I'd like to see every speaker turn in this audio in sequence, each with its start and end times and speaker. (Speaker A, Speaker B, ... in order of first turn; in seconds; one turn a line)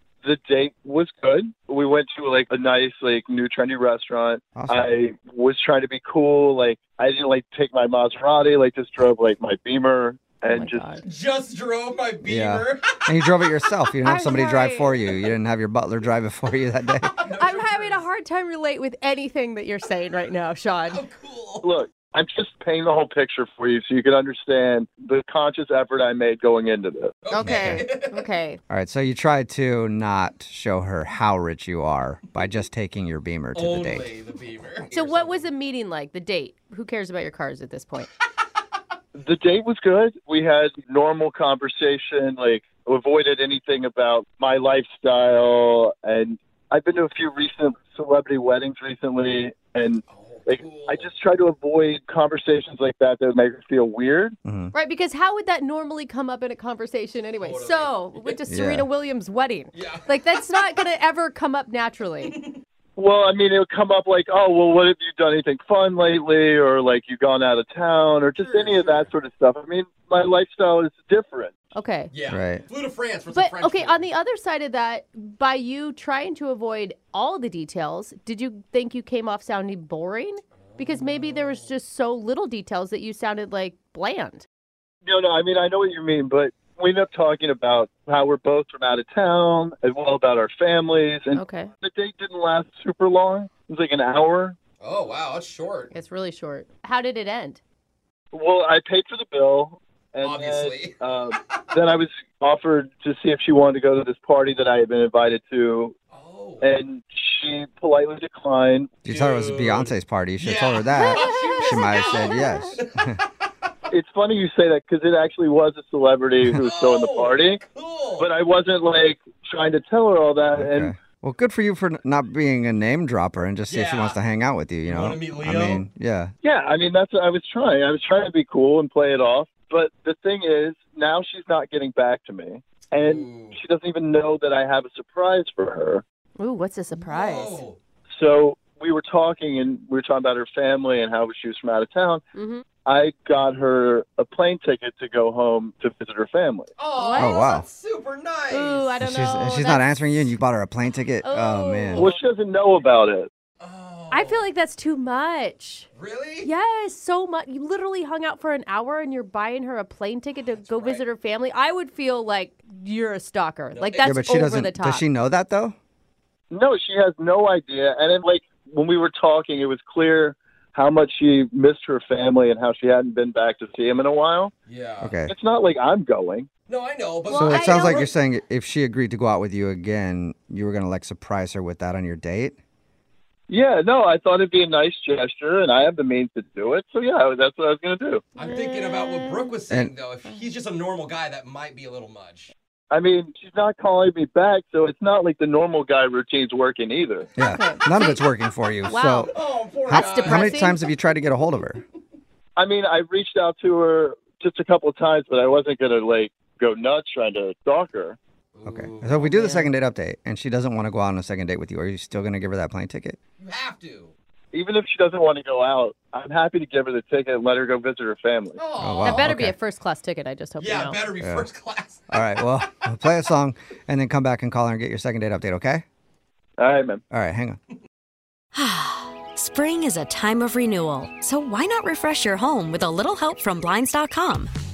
Speaker A: 0.2-10.9
Speaker B: 4.5-4.9
Speaker C: 10.5-11.0
Speaker D: 11.0-13.0
Speaker B: 12.2-17.1
Speaker C: 14.0-15.0
Speaker D: 17.1-18.0
Speaker C: 17.3-21.0
Speaker D: 20.9-21.7
Speaker A: 21.6-27.1
Speaker D: 27.2-28.3
Speaker C: 27.3-28.6
Speaker B: 27.4-27.9
Speaker B: 28.7-34.1
Speaker D: 33.5-35.4
Speaker C: 34.9-38.1
Speaker A: 39.1-54.4
Speaker D: 50.1-51.1
Speaker B: 54.5-54.7
Speaker C: 54.7-62.3
Speaker D: 57.4-58.4
Speaker B: 58.5-58.9
Speaker D: 59.7-60.8
Speaker D: 62.2-62.6
Speaker A: 63.0-71.6
Speaker D: 68.4-69.1
Speaker C: 71.7-72.1
Speaker D: 72.1-74.1
Speaker B: 72.3-72.6
Speaker C: 73.3-84.5
Speaker D: 80.7-81.7
Speaker A: 85.0-94.6
Speaker C: 91.3-91.7
Speaker D: 94.8-95.9
Speaker C: 95.9-97.6
Speaker A: 98.3-105.9
Speaker D: 100.2-101.0
Speaker D: 106.1-106.7
Speaker A: 106.6-108.9
Speaker B: 109.0-113.2
Speaker D: 109.1-113.3
Speaker C: 111.0-112.8
Speaker A: 113.9-117.6
Speaker D: 116.6-118.3
Speaker A: 118.2-120.9
Speaker B: 120.6-126.3
Speaker D: 123.7-124.2
Speaker D: 124.9-125.8
Speaker A: 126.4-136.0
Speaker D: 132.9-133.6
Speaker C: 136.4-137.6
Speaker D: 136.9-137.8
Speaker A: 138.1-142.3
Speaker C: 142.3-142.7
Speaker A: 142.8-146.7
Speaker D: 146.8-148.9
Speaker C: 146.9-147.6
Speaker B: 147.2-147.7
Speaker C: 148.5-150.2
Speaker B: 149.0-152.1
Speaker C: 151.2-152.1
Speaker A: 151.9-153.3
Speaker D: 153.6-154.5
Speaker C: 154.1-155.9
Speaker D: 155.9-156.5
Speaker C: 156.4-165.0
Speaker D: 160.4-161.0
Speaker D: 163.8-164.2
Speaker B: 164.0-165.8
Speaker A: 166.5-174.5
Speaker D: 174.7-175.2
Speaker B: 175.0-175.3
Speaker A: 175.3-176.5
Speaker D: 176.7-178.0
Speaker C: 177.3-178.1
Speaker B: 177.4-182.6
Speaker A: 183.5-188.2
Speaker D: 188.4-192.5
Speaker C: 188.4-189.6
Speaker A: 192.9-197.3
Speaker B: 197.4-199.3
Speaker C: 197.4-198.2
Speaker C: 198.8-199.4
Speaker D: 199.3-200.8
Speaker B: 199.9-201.8
Speaker C: 199.9-200.8
Speaker A: 202.6-208.2
Speaker D: 208.6-209.3
Speaker B: 208.7-213.2
Speaker C: 209.3-209.7
Speaker D: 213.4-214.1
Speaker A: 214.5-218.6
Speaker D: 218.6-219.3
Speaker B: 218.8-219.6
Speaker C: 219.0-221.0
Speaker D: 220.6-222.9
Speaker B: 221.2-221.5
Speaker B: 222.1-225.8
Speaker A: 226.6-227.0
Speaker B: 227.1-227.6
Speaker E: 228.5-234.5